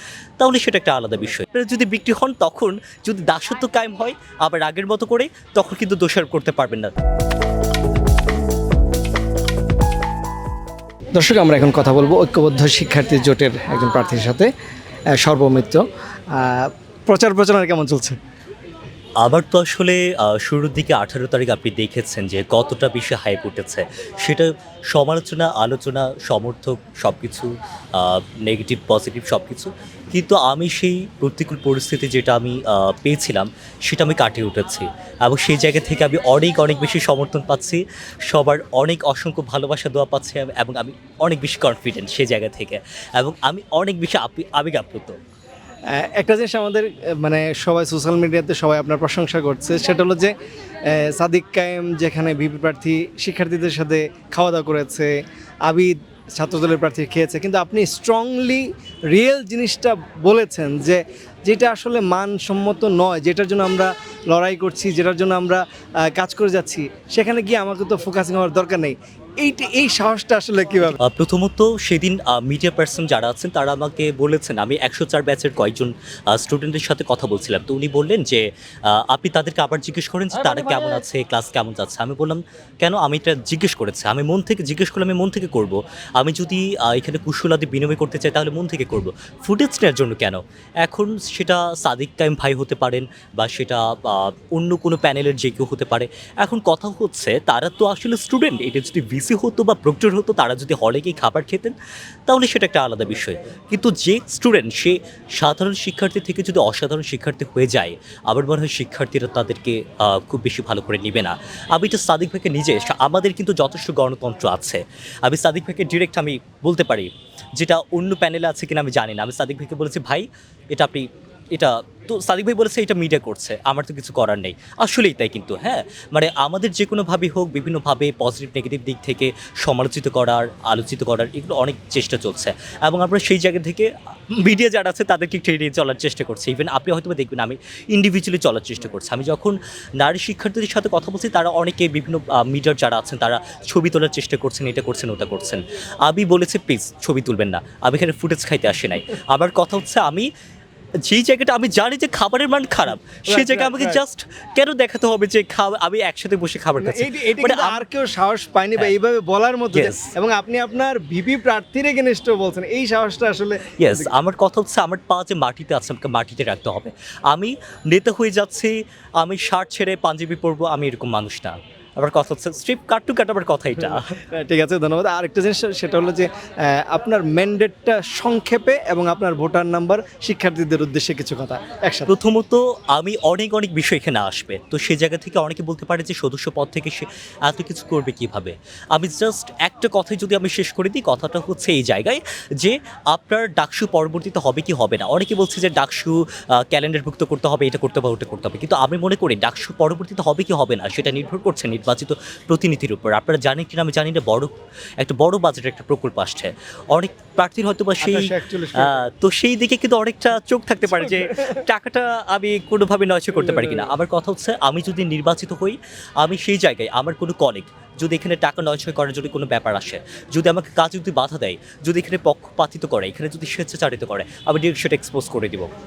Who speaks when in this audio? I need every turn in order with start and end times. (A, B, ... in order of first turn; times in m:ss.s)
0:00.4-0:06.9 A
0:11.2-0:14.5 B
0:15.2-0:18.2 B
0:19.2-0:45.2 A
0:45.9-0:50.3 B
0:50.8-1:11.0 B
1:10.8-1:41.7 A
1:42.3-2:30.3 A
2:31.0-2:37.8 A
2:33.3-2:34.0 B
2:36.8-2:44.1 B
2:39.7-2:40.0 A
2:43.8-2:54.1 A
2:53.8-3:02.1 B
3:02.1-3:45.7 A
3:28.0-3:29.0 B